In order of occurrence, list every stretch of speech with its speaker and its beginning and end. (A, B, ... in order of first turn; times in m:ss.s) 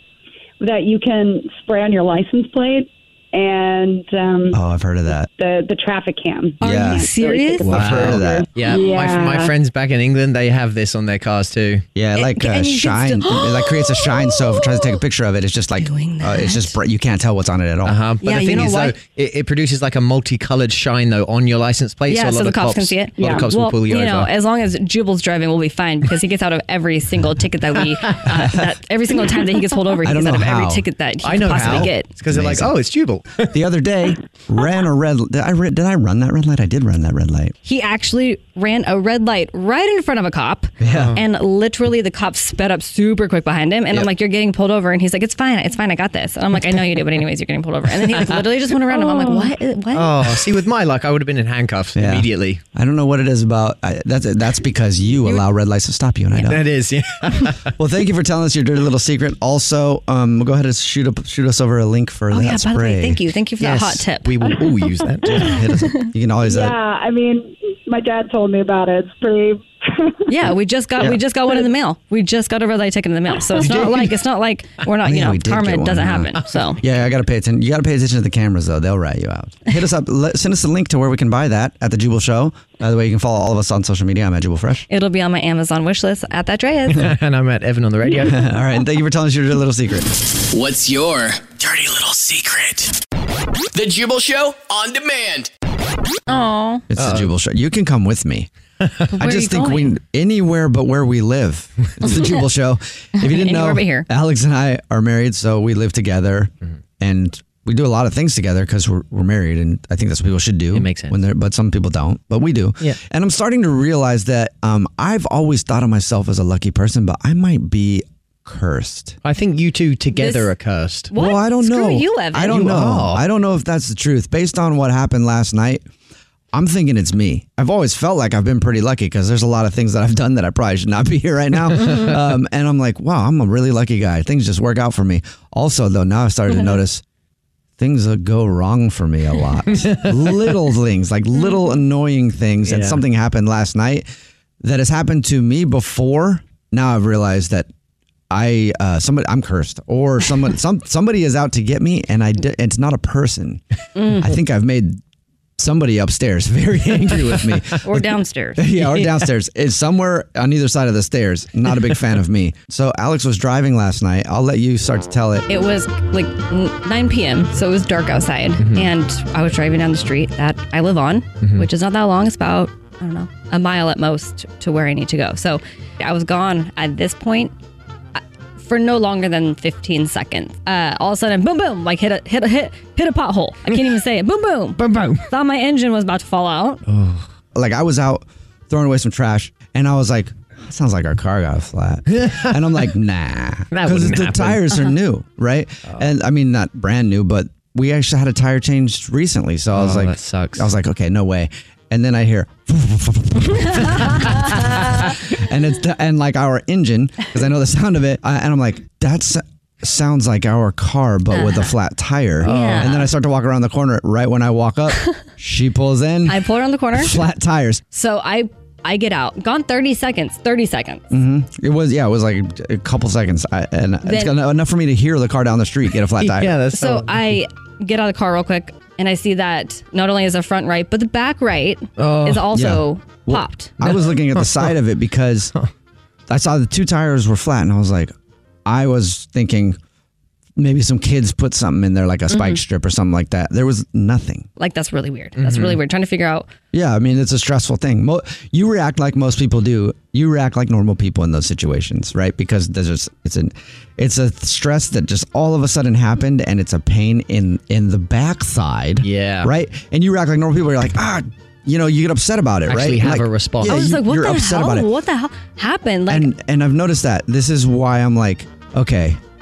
0:00.6-0:04.6 A
0:04.5-0:05.3 B
0:05.4-0:09.5 A
0:06.6-0:08.2 C
0:06.6-0:07.1 B
0:07.6-0:11.8 D
0:07.7-0:08.5 B
0:12.0-0:18.0 B
0:12.2-0:15.0 C
0:15.8-0:16.7 C
0:17.8-0:24.3 D
0:18.2-0:18.9 C
0:22.1-0:32.1 C
0:27.9-0:28.2 D
0:30.0-0:30.9 B
0:31.2-0:33.5 D
0:31.4-0:32.7 B
0:33.5-0:37.6 B
0:37.6-0:50.2 C
0:40.8-0:41.1 B
0:40.8-0:41.2 D
0:48.3-0:52.6 D
0:52.0-0:56.6 B
0:56.5-0:57.7 D
0:57.8-1:03.3 B
1:02.3-1:04.4 C
1:03.6-1:05.7 D
1:05.2-1:06.8 B
1:05.8-1:06.1 C
1:06.4-1:10.3 A
1:10.3-1:16.8 C
1:13.5-1:14.2 D
1:15.0-1:24.9 B
1:24.9-1:27.1 C
1:26.9-1:28.4 D
1:28.2-1:30.1 B
1:30.5-1:33.0 E
1:33.7-1:35.5 E
1:36.3-1:36.8 C
1:36.9-1:38.5 B
1:37.0-1:37.3 D
1:39.2-1:40.0 C
1:39.2-1:59.2 B
1:42.1-1:42.4 C
1:43.2-1:44.1 C
1:50.7-1:51.2 D
1:59.2-2:01.1 D
2:00.2-2:00.5 C
2:01.1-2:02.6 C
2:01.1-2:05.8 B
2:02.5-2:03.2 D
2:06.5-2:17.0 B
2:17.8-2:24.0 B
2:19.8-2:20.4 D
2:22.6-2:23.0 D
2:24.6-2:27.7 B
2:28.3-2:33.6 B
2:34.0-2:34.3 C
2:34.2-2:35.0 B
2:35.6-2:45.5 B
2:37.8-2:38.8 C
2:45.5-2:57.5 C
2:48.6-2:48.9 D
2:51.4-2:51.7 D
2:58.2-3:06.8 C
3:03.7-3:04.0 D
3:04.8-3:05.3 D
3:06.9-3:07.3 D
3:07.5-3:36.4 B
3:12.1-3:12.9 D
3:13.7-3:14.6 D
3:19.7-3:20.7 D
3:31.3-3:31.7 C
3:32.4-3:33.1 D
3:32.4-3:33.0 C
3:36.3-3:37.2 C
3:36.9-3:37.8 B
3:37.9-3:41.0 C
3:41.1-3:46.5 B
3:44.1-3:44.4 C
3:46.2-3:47.4 D
3:46.8-3:53.7 C
3:52.0-3:52.5 D
3:52.5-3:55.5 B
3:53.8-3:54.7 D
3:56.3-3:58.1 B
3:58.7-3:59.8 B
4:00.6-4:04.5 B
4:02.3-4:02.6 C
4:04.6-4:06.5 C
4:05.4-4:05.8 D
4:06.7-4:24.9 B
4:19.0-4:19.5 D
4:22.7-4:23.8 D
4:23.6-4:26.3 C
4:26.1-4:29.2 B